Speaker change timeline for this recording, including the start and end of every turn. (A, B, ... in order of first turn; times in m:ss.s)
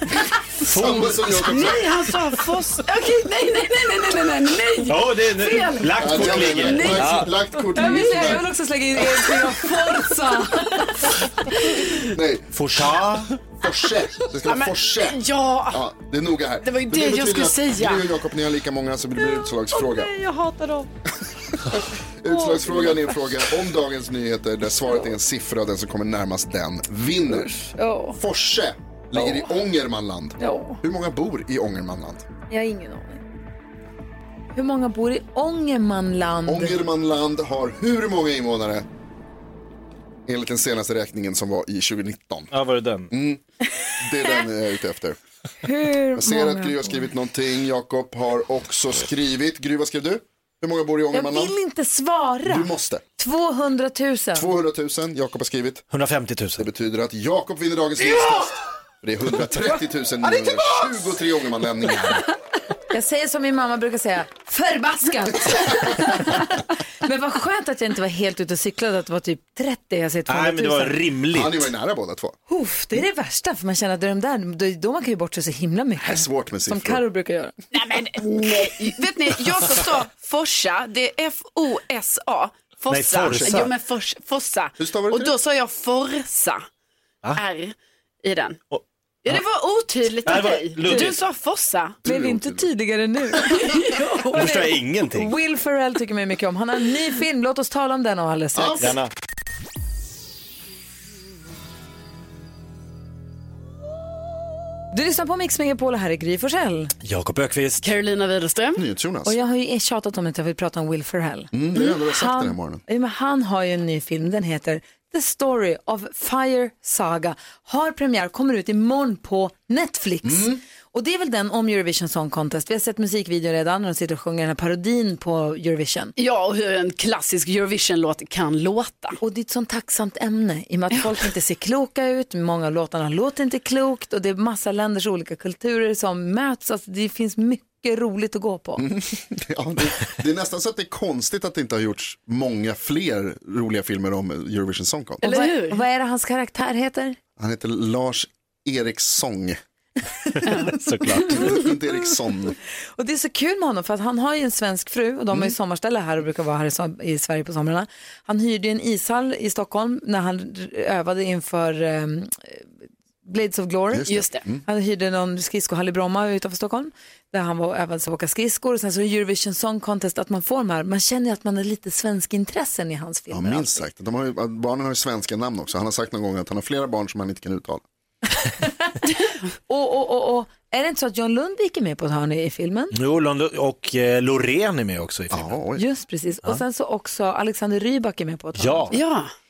0:00.6-0:02.0 A
0:00.8-0:01.1 B
0:01.2-0:07.2 C
0:04.8-0:07.3 B
0:06.0-0:08.5 A
0:07.7-0:11.7 D
0:07.8-0:08.3 C
0:12.0-0:12.5 A
0:12.5-0:13.3 B
0:13.6-0:20.1 A
0:14.4-0:15.8 C
0:16.6-0:18.1 C
0:19.2-0:20.9 D
0:21.5-0:27.6 A
0:22.3-0:23.1 D
0:27.7-0:28.2 D
0:28.2-0:32.3 A
0:30.4-0:30.8 D
0:32.5-0:33.2 D
0:34.5-0:36.8 D
0:36.4-0:38.8 A
0:40.2-0:42.5 A
0:42.5-0:43.1 B
0:43.1-0:43.4 A
0:44.0-0:45.2 A
0:45.6-0:47.1 D
0:46.2-0:51.5 A
0:51.1-0:54.5 D
0:52.4-0:53.0 A
0:54.3-0:55.8 A
0:55.9-0:56.7 B
0:56.6-1:02.2 A
1:02.9-1:11.0 D
1:10.3-1:11.7 B
1:11.3-1:12.4 A
1:12.5-1:17.5 D
1:16.0-1:17.0 A
1:17.7-1:26.6 C
1:22.9-1:23.7 B
1:23.2-1:23.6 A
1:24.8-1:25.3 A
1:27.3-1:28.6 C
1:28.7-1:29.4 B
1:29.2-1:32.0 C
1:30.2-1:31.2 B
1:32.0-1:32.7 A
1:32.1-1:33.7 D
1:33.4-1:34.4 C
1:34.3-1:35.3 B
1:34.3-1:38.9 D
1:38.5-1:38.9 A
1:38.8-1:39.1 B
1:44.9-1:46.9 D
1:47.0-1:47.8 B
1:47.8-1:48.8 C
1:48.8-1:49.4 A
1:49.2-2:06.1 D
1:51.5-1:52.8 A
2:00.2-2:00.6 A
2:06.2-2:09.2 C
2:09.2-2:18.8 D
2:18.8-2:25.2 A
2:25.2-2:27.2 D
2:25.2-2:25.8 C
2:27.4-2:29.6 A
2:30.4-2:31.5 B
2:30.4-2:30.7 C
2:31.3-2:32.6 A
2:33.0-2:42.7 D
2:43.2-2:44.1 D
2:43.9-2:44.6 A
2:44.1-2:44.4 C
2:44.6-2:53.9 D
2:53.3-2:57.8 A
2:59.7-3:02.9 D
3:02.9-3:05.6 B
3:05.3-3:05.8 A
3:05.8-3:09.0 D
3:08.6-3:09.0 B
3:08.9-3:09.3 C